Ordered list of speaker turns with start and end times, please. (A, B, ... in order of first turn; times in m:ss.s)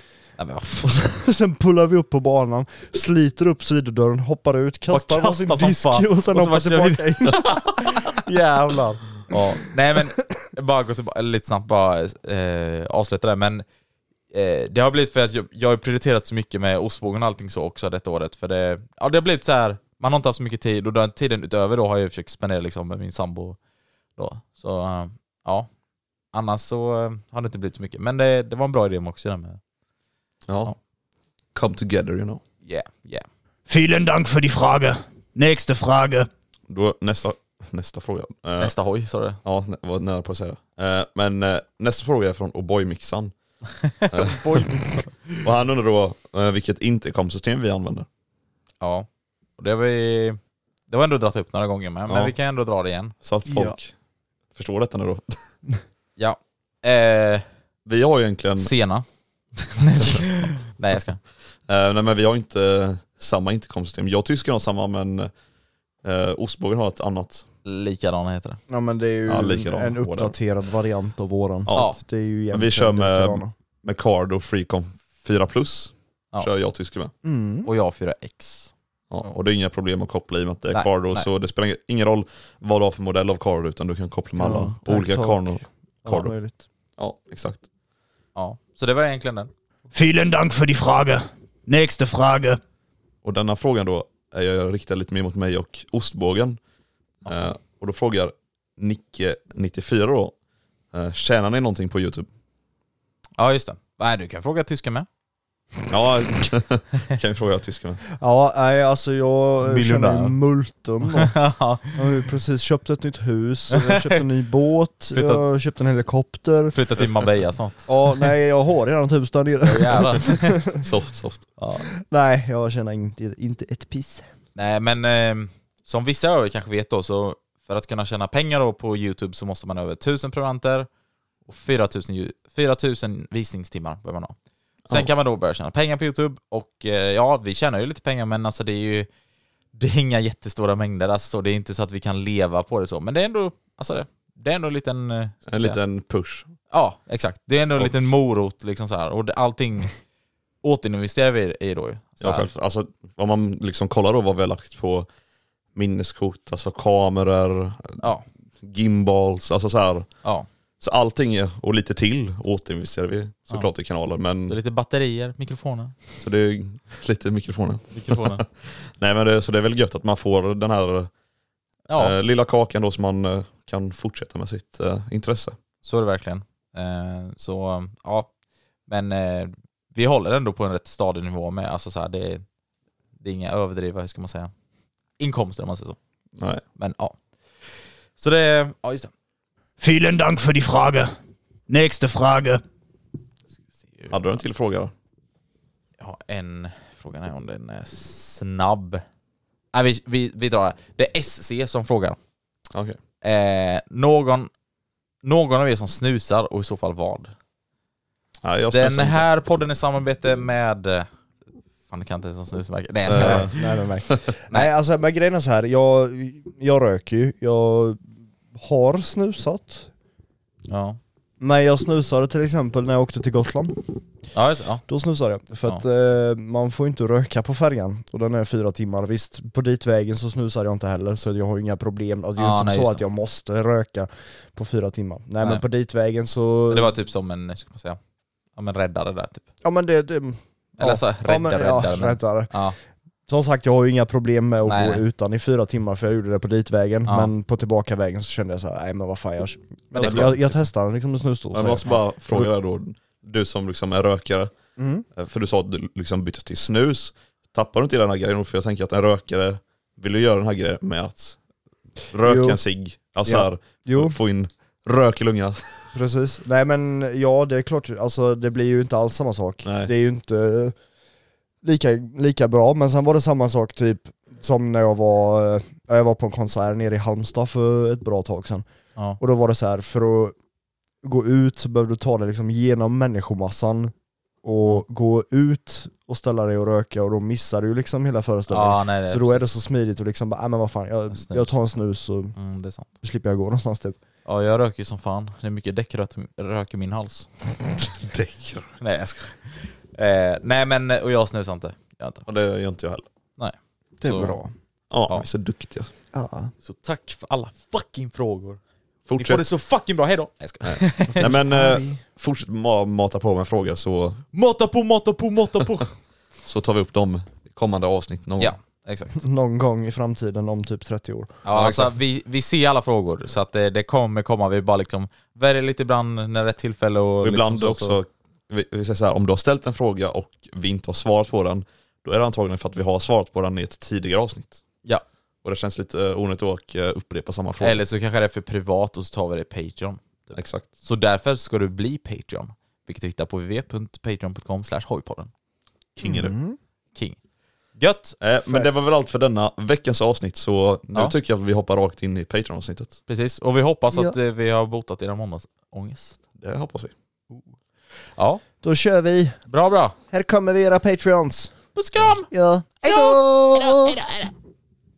0:00.4-0:01.1 A
0:00.8-0:09.0 B
0:04.9-0:13.6 A
0:14.3-0:23.6 A
0:24.2-0:25.7 A
0:26.3-0:29.6 A
0:30.5-0:30.8 C
0:31.5-0:32.4 C
0:32.6-0:33.3 A
0:33.7-0:36.3 D
0:36.7-0:38.8 C
0:38.6-0:39.4 A
0:39.4-0:43.3 C
0:43.8-0:45.1 A
0:44.1-0:44.7 C
0:45.4-0:48.1 C
0:48.8-0:49.1 A
0:49.6-0:50.4 A
0:50.9-0:53.2 A
0:52.1-0:52.3 C
0:53.2-0:53.9 C
0:53.5-0:53.8 B
0:54.6-0:55.4 C
0:56.2-0:57.4 A
0:57.9-0:58.7 C
0:58.6-0:59.0 A
0:59.6-1:01.2 A
1:01.7-1:05.3 C
1:06.0-1:07.5 C
1:07.6-1:08.6 A
1:08.7-1:13.5 B
1:09.3-1:10.3 C
1:11.7-1:11.9 C
1:11.7-1:12.0 A
1:12.5-1:17.1 C
1:17.2-1:17.7 B
1:17.7-1:18.7 A
1:19.1-1:26.3 C
1:20.7-1:21.3 A
1:24.4-1:26.6 B
1:27.0-1:27.6 C
1:28.4-1:29.5 A
1:29.9-1:32.6 D
1:33.2-1:36.6 C
1:37.2-1:40.4 C
1:40.9-1:42.3 C
1:43.4-1:45.1 A
1:45.9-1:48.0 C
1:48.2-1:51.4 B
1:49.6-1:50.4 A
1:51.2-1:52.0 A
1:51.9-1:56.8 B
1:53.7-1:54.2 A
1:55.1-1:55.4 A
1:56.7-1:57.9 A
1:57.9-2:00.8 B
1:59.6-2:00.6 A
2:00.8-2:01.5 C
2:01.6-2:04.3 B
2:04.6-2:10.9 A
2:11.5-2:14.4 A
2:14.9-2:19.1 A
2:19.8-2:25.8 A
2:25.5-2:26.5 C
2:26.7-2:30.0 A
2:30.6-2:32.5 A
2:32.2-2:35.1 C
2:35.8-2:38.0 C
2:38.0-2:38.2 A
2:38.6-2:40.1 C
2:40.8-2:44.6 C
2:44.5-2:46.0 A
2:46.2-2:51.1 C
2:47.9-2:48.4 A
2:51.9-2:52.1 A
2:52.0-2:55.6 C
2:55.8-2:58.3 A
2:58.9-3:02.4 A
3:03.2-3:04.5 A
3:05.2-3:06.0 A
3:06.8-3:07.2 A
3:08.2-3:09.1 A
3:09.8-3:11.1 D
3:11.7-3:12.6 D
3:14.1-3:14.9 C
3:16.0-3:19.0 A
3:19.7-3:22.2 A
3:23.2-3:24.5 A
3:25.2-3:27.3 A
3:28.4-3:29.3 C
3:28.7-3:31.1 A
3:31.9-3:33.7 A
3:33.1-3:34.2 C
3:33.1-3:38.0 B
3:38.5-3:39.9 B
3:40.7-3:41.0 A
3:41.4-3:44.0 B
3:44.3-3:44.8 A
3:44.9-3:56.9 B
3:52.4-3:53.0 A
3:56.7-3:58.0 A
3:58.6-3:59.4 A
3:59.6-4:02.6 B
4:00.8-4:02.8 A
4:03.3-4:12.5 B
4:04.6-4:05.0 A
4:10.0-4:10.3 A
4:10.0-4:10.6 C
4:11.5-4:14.5 C
4:14.8-4:15.0 B
4:15.2-4:21.4 C
4:22.1-4:25.9 C
4:22.2-4:22.6 B
4:23.2-4:24.2 B
4:25.9-4:30.8 B
4:29.6-4:29.9 C
4:31.6-4:38.7 B
4:39.2-4:40.4 B
4:41.0-4:52.4 B
4:48.5-4:49.5 A
4:51.1-4:51.5 A
4:52.4-4:52.9 A
4:53.0-4:54.0 B
4:54.2-4:57.3 A
4:58.0-4:58.7 C
4:58.8-5:02.2 A
5:02.3-5:03.0 C
5:03.4-5:04.4 A
5:04.0-5:04.5 B
5:04.9-5:05.9 C
5:06.1-5:06.5 B
5:06.6-5:11.3 A
5:09.1-5:09.4 C
5:10.6-5:14.2 C
5:11.3-5:12.0 B
5:14.3-5:15.9 A
5:16.4-5:18.5 C
5:18.4-5:19.2 A
5:19.2-5:21.4 B
5:21.4-5:28.0 A
5:21.5-5:21.9 C
5:27.2-5:34.6 C
5:35.4-5:37.8 C
5:37.6-5:45.3 A
5:40.4-5:40.7 C
5:46.0-5:46.3 C
5:46.0-5:46.6 B
5:47.8-5:48.2 A
5:48.2-5:53.0 C
5:53.1-5:56.2 A
5:56.4-5:56.9 C
5:58.2-5:58.4 A
5:58.6-5:59.4 B
5:59.5-6:00.0 A
6:00.1-6:01.6 B
6:01.8-6:02.3 A
6:02.3-6:04.0 B
6:02.8-6:04.3 A